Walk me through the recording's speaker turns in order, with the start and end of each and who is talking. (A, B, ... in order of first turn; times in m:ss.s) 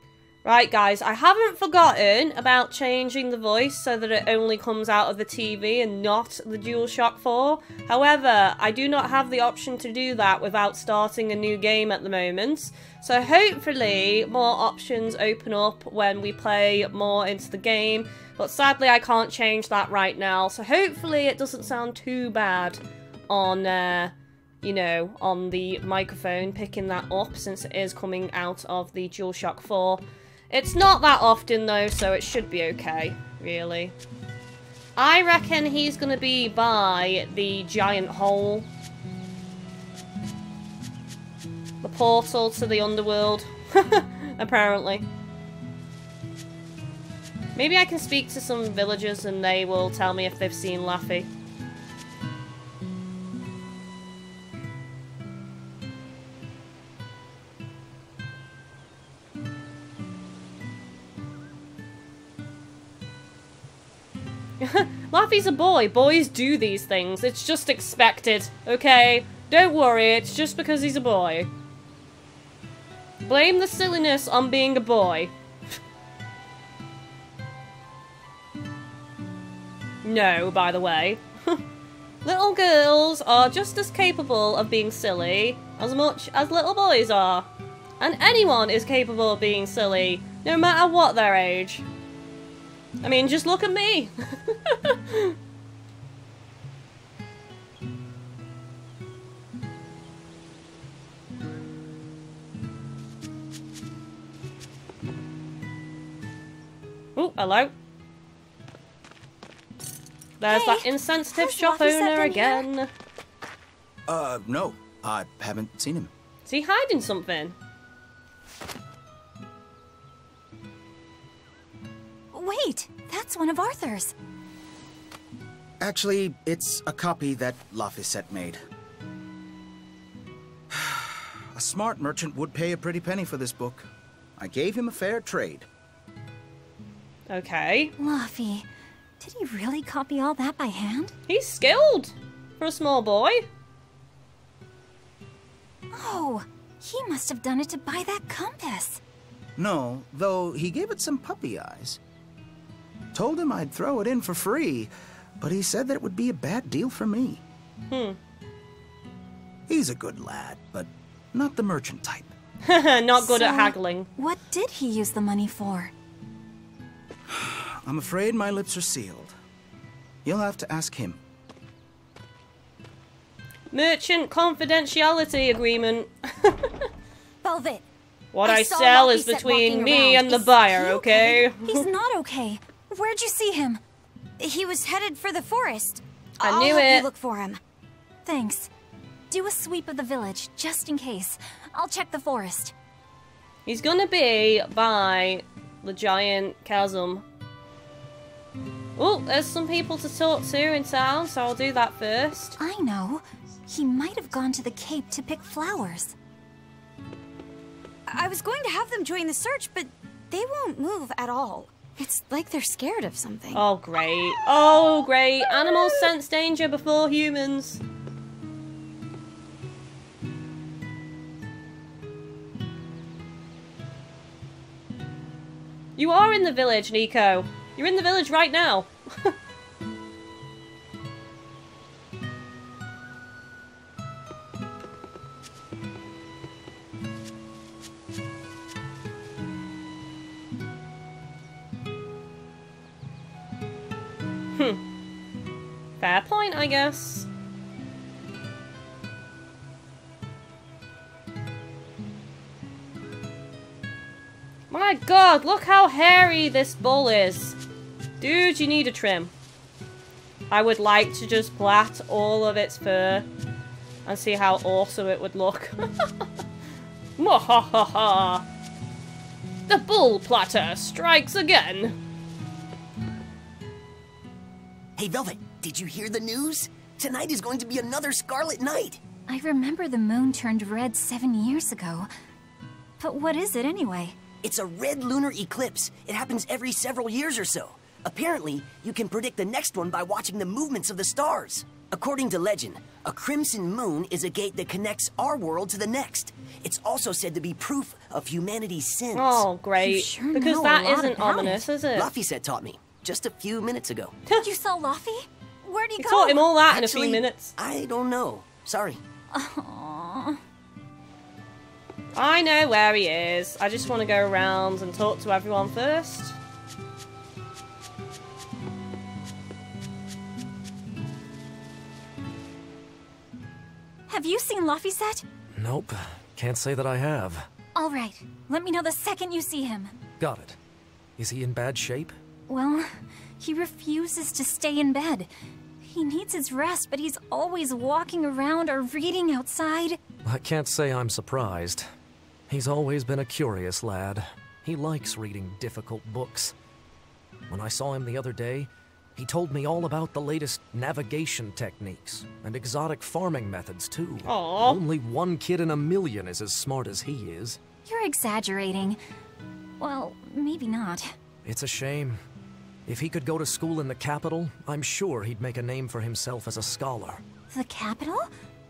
0:00.4-0:34.0 A
0:35.0-0:38.7 A
0:41.8-0:45.1 A
0:47.5-0:51.3 A
1:04.6-1:11.5 A
1:13.2-1:15.3 A
1:20.0-1:21.6 A
1:22.2-1:31.8 A
1:33.0-1:35.4 A
1:47.2-1:47.7 A
1:50.4-1:52.9 A
1:50.5-1:52.7 B
1:54.1-1:56.1 C
1:56.4-1:57.6 A
2:02.3-2:04.1 B
2:05.8-2:08.6 C
2:10.7-2:15.7 C
2:17.3-2:17.9 A
2:18.0-2:18.7 B
2:19.2-2:21.1 B
2:21.3-2:23.4 A
2:25.9-2:29.0 B
2:29.6-2:32.0 C
2:33.1-2:37.4 C
2:37.9-2:38.2 A
2:39.7-2:42.3 C
2:42.7-2:44.1 A
2:43.2-2:45.9 B
2:47.3-2:49.3 C
2:50.2-2:51.2 C
2:53.7-2:56.9 A
2:57.4-2:57.8 D
2:58.3-3:01.8 A
2:58.4-3:00.6 D
3:00.7-3:03.8 B
3:04.4-3:07.6 D
3:06.4-3:07.1 A
3:08.2-3:08.7 B
3:09.3-3:12.7 B
3:13.6-3:17.2 A
3:19.0-3:22.6 A
3:22.6-3:26.1 B
3:28.1-3:33.6 D
3:33.5-3:37.8 A
3:46.0-3:49.4 A
4:04.5-4:04.8 A
4:06.0-4:07.3 A
4:14.7-4:17.6 A
4:18.2-4:19.3 A
4:20.5-4:23.3 A
4:24.0-4:26.3 A
4:27.2-4:28.4 A
4:29.7-4:32.0 A
4:35.0-4:39.0 E
4:39.3-4:42.1 B
4:43.0-4:44.2 B
4:44.4-4:59.4 E
4:59.1-5:02.1 A
4:59.8-5:01.7 B
5:01.9-5:04.2 E
5:04.4-5:06.4 B
5:06.0-5:07.5 A
5:06.7-5:09.0 E
5:09.3-5:10.4 B
5:12.1-5:16.4 A
5:24.1-5:25.2 B
5:25.6-5:27.5 F
5:27.7-5:30.0 B
5:30.2-5:30.6 F
5:31.2-5:32.1 F
5:32.5-5:32.9 B
5:33.4-5:35.3 B
5:35.8-5:40.0 B
5:40.2-5:41.9 F
5:42.5-5:46.5 F
5:47.5-5:57.6 F
5:54.2-5:54.8 A
5:57.8-5:59.0 B
5:59.8-6:01.1 B
6:01.4-6:02.2 F
6:02.9-6:07.2 F
6:07.5-6:08.3 B